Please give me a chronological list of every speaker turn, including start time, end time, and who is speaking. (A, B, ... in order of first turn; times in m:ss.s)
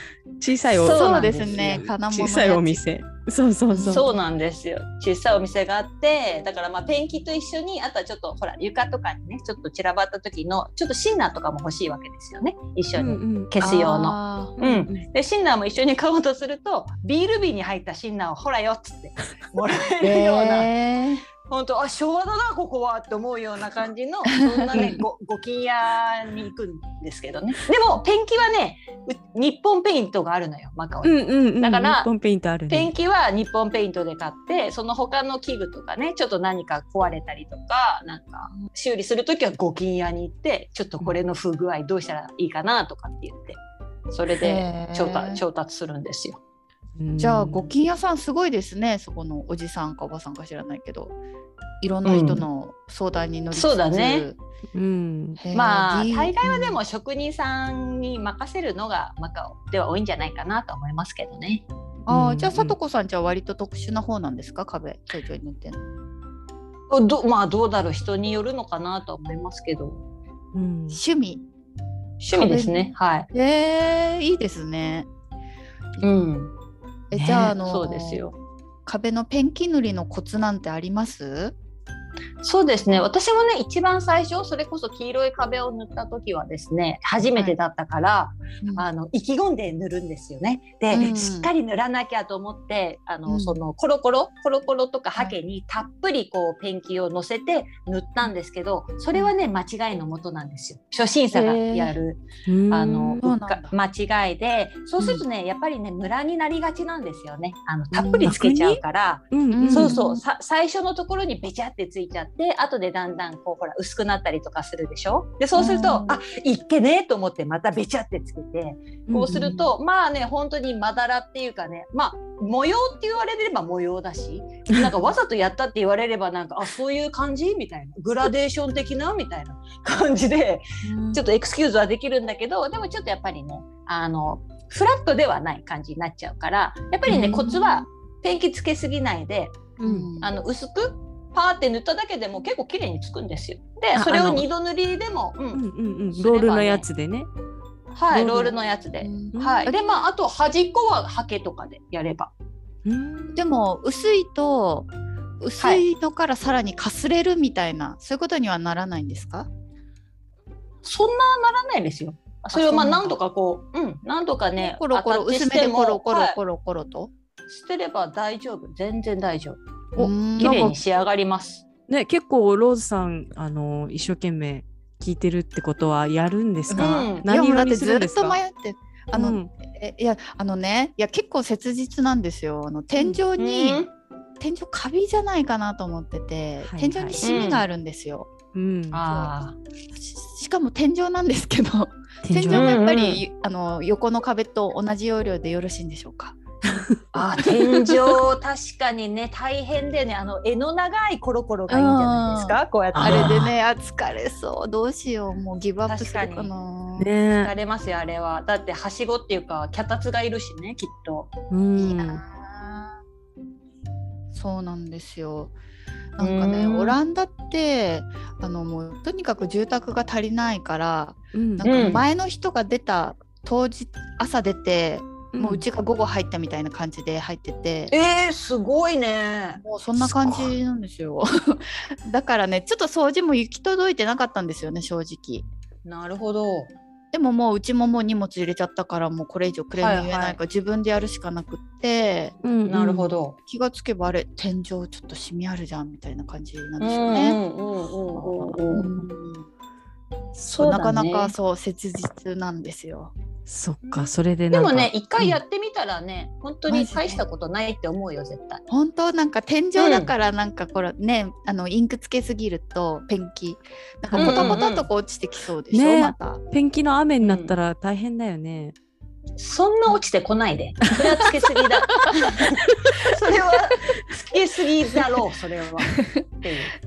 0:00.4-0:04.1 A
0:00.7-0:01.9 B
0:00.8-0:02.8 C
0:03.7-0:04.1 C
0:03.9-0:20.7 B
0:13.0-0:13.6 A
0:13.6-0:14.6 C
0:14.6-0:15.0 A
0:20.0-0:21.3 C
0:21.4-0:32.1 B
0:24.4-0:24.9 C
0:31.0-0:32.9 A
0:32.7-0:43.6 B
0:44.1-0:46.4 B
0:44.4-0:45.4 C
0:47.0-0:47.7 A
0:47.2-0:51.2 C
0:51.8-0:54.4 C
0:52.0-0:52.4 B
0:53.5-0:54.3 B
0:54.7-0:55.4 A
0:55.4-0:56.8 C
0:55.5-1:01.6 B
1:02.1-1:02.8 A
1:02.1-1:05.8 C
1:06.9-1:10.0 B
1:10.5-1:11.0 A
1:10.9-1:11.4 C
1:12.2-1:13.3 B
1:12.3-1:15.1 C
1:16.0-1:16.5 B
1:17.1-1:18.2 C
1:17.1-1:17.6 A
1:17.6-1:18.4 B
1:18.9-1:21.6 C
1:22.4-2:25.6 B
1:30.9-1:31.5 C
1:33.3-1:33.6 C
1:41.3-1:42.0 C
1:42.5-1:43.2 A
1:43.2-1:43.8 C
1:47.9-1:48.4 C
1:48.2-1:48.8 A
1:49.3-1:50.0 A
1:49.5-1:50.2 C
1:55.6-1:56.2 C
1:59.1-1:59.6 A
1:59.3-1:59.7 C
2:10.8-2:11.2 C
2:17.1-2:17.5 A
2:17.1-2:17.8 C
2:19.8-2:20.1 A
2:19.8-2:20.3 C
2:24.0-2:24.5 A
2:25.6-2:27.3 A
2:26.1-2:26.9 B
2:27.9-2:32.3 B
2:28.1-2:28.5 A
2:29.0-2:29.8 C
2:29.3-2:29.7 A
2:32.9-2:33.5 A
2:33.3-2:34.9 C
2:35.4-2:39.5 C
2:40.8-2:46.4 B
2:42.5-2:43.2 C
2:44.6-2:47.1 C
2:47.5-2:49.6 B
2:50.0-2:50.7 A
2:50.0-2:50.8 C
2:50.4-2:51.6 B
2:51.9-2:58.4 A
2:56.7-3:03.8 C
2:56.8-2:57.2 B
2:59.1-2:59.5 A
3:03.4-3:03.9 B
3:04.4-3:08.3 C
3:06.6-3:07.2 A
3:07.2-3:07.6 B
3:08.5-3:09.1 A
3:08.9-3:09.6 B
3:09.9-3:16.4 C
3:12.2-3:12.8 A
3:12.5-3:13.2 B
3:16.7-3:17.0 A
3:17.1-3:23.3 B
3:17.4-3:17.9 C
3:21.7-3:27.1 C
3:23.0-3:23.5 A
3:25.9-3:26.5 B
3:27.0-3:27.5 A
3:27.4-3:31.3 B
3:31.5-3:32.2 A
3:31.8-3:32.9 C
3:34.3-3:35.6 C
3:36.2-3:47.9 C
3:36.2-3:37.0 B
3:41.3-3:41.8 A
3:41.6-3:42.0 B
3:45.3-3:45.6 A
3:47.9-3:50.4 B
3:49.6-3:55.5 C
3:55.9-3:56.7 B
3:57.1-4:02.4 C
3:59.8-4:00.4 B
4:02.4-4:03.1 A
4:02.7-4:03.4 B
4:03.5-4:07.4 C
4:06.8-4:08.9 B
4:08.7-4:09.5 C
4:10.5-4:11.3 B
4:10.5-4:13.1 C
4:13.5-4:15.4 A
4:13.9-4:18.6 B
4:16.7-4:17.2 C
4:18.7-4:26.4 C
4:19.8-4:20.1 B
4:24.1-4:24.6 A
4:24.2-4:24.9 B
4:25.7-4:28.8 A
4:27.2-4:27.6 B
4:29.4-4:36.8 B
4:36.0-4:36.2 C